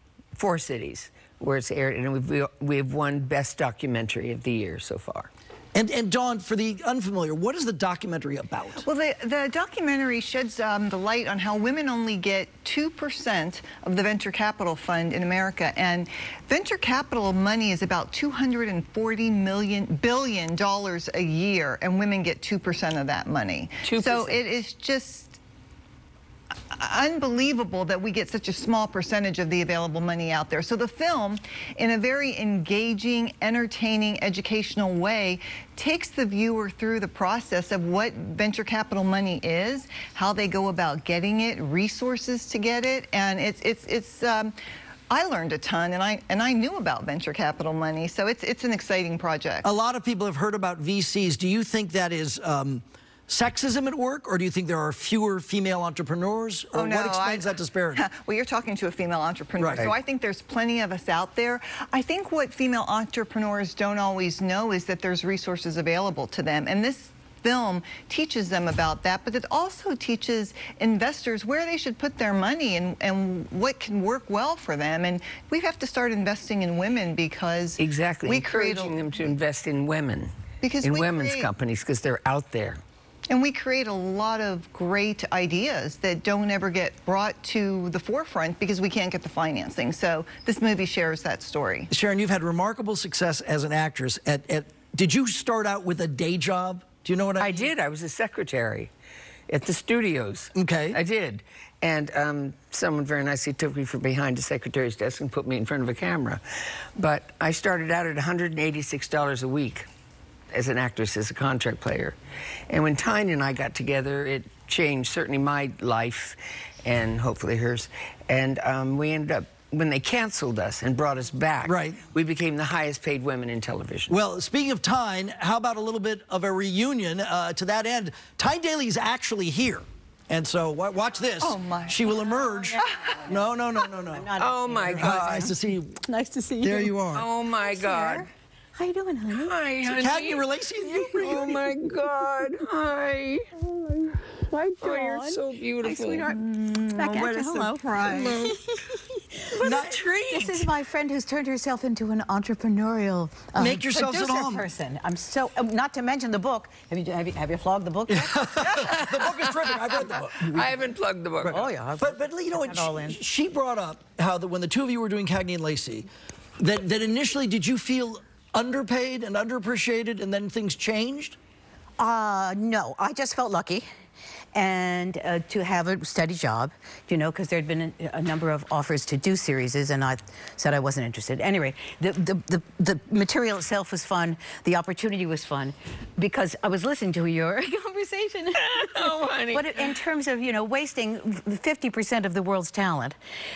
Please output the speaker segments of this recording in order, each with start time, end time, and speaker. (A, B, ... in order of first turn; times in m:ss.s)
0:00.4-0:05.3 A
0:05.8-0:08.9 B
0:08.8-0:25.4 C
0:23.8-0:24.4 A
0:26.7-0:44.6 C
0:45.1-0:49.7 C
0:49.6-0:58.0 B
0:56.7-1:19.3 C
0:59.6-0:59.9 B
1:17.8-1:22.8 A
1:20.6-1:21.5 C
1:23.3-1:31.9 C
1:31.9-1:37.7 B
1:37.4-1:38.9 A
1:39.5-1:46.4 A
1:40.5-1:41.0 B
1:47.0-1:49.9 A
1:50.5-1:52.2 A
1:52.7-2:04.2 A
2:01.6-2:02.0 B
2:04.1-2:14.3 B
2:11.4-2:12.0 C
2:12.3-2:13.5 D
2:12.8-2:13.2 C
2:14.1-2:17.0 D
2:14.4-2:15.5 A
2:14.9-2:16.0 B
2:16.6-2:17.3 B
2:17.1-2:18.3 A
2:17.6-2:19.6 D
2:19.3-2:23.5 A
2:19.8-2:21.7 B
2:24.5-2:38.5 D
2:24.8-2:26.3 A
2:26.6-2:28.4 C
2:28.0-2:28.6 A
2:29.4-2:30.7 A
2:29.6-2:30.0 B
2:33.6-2:34.7 B
2:38.1-2:40.7 B
2:38.6-2:41.7 A
2:41.4-2:46.1 B
2:41.5-2:43.2 D
2:46.6-2:51.4 B
2:52.0-2:53.8 D
2:54.5-3:13.2 D
3:08.6-3:09.8 A